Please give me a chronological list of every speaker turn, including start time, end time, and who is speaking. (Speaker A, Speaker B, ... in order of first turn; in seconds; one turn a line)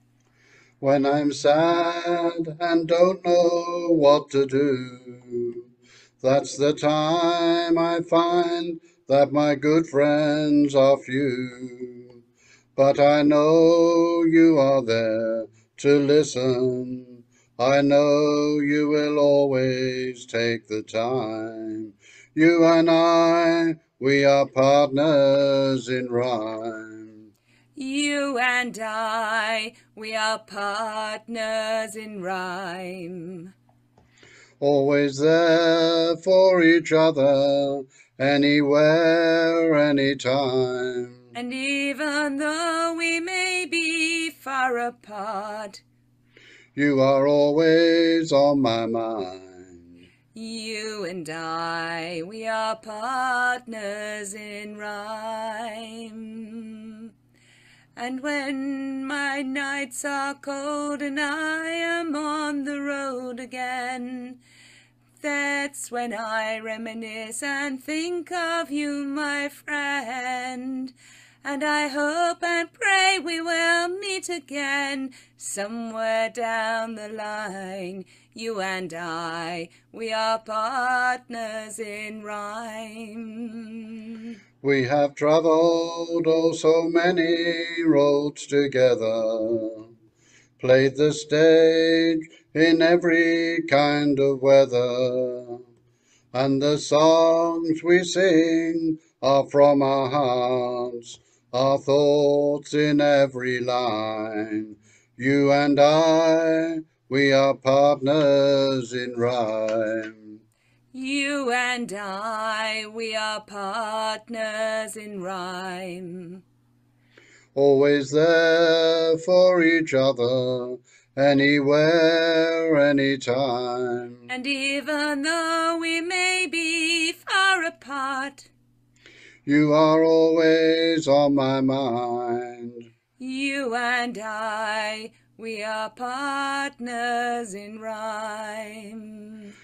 Speaker A: 0.8-5.7
Speaker A: 6.2-12.2
Speaker A: 12.8-27.3
Speaker B: 27.8-33.5
Speaker A: 34.6-41.2
Speaker B: 41.4-45.8
Speaker A: 46.8-50.0
Speaker B: 50.3-57.1
Speaker B: 58.0-64.4
Speaker B: 65.2-84.3
Speaker A: 84.6-89.9
Speaker A: 90.6-95.7
Speaker A: 96.3-110.4
Speaker B: 110.9-116.4
Speaker A: 117.5-124.3
Speaker B: 124.3-128.5
Speaker A: 129.4-132.9
Speaker B: 133.2-139.5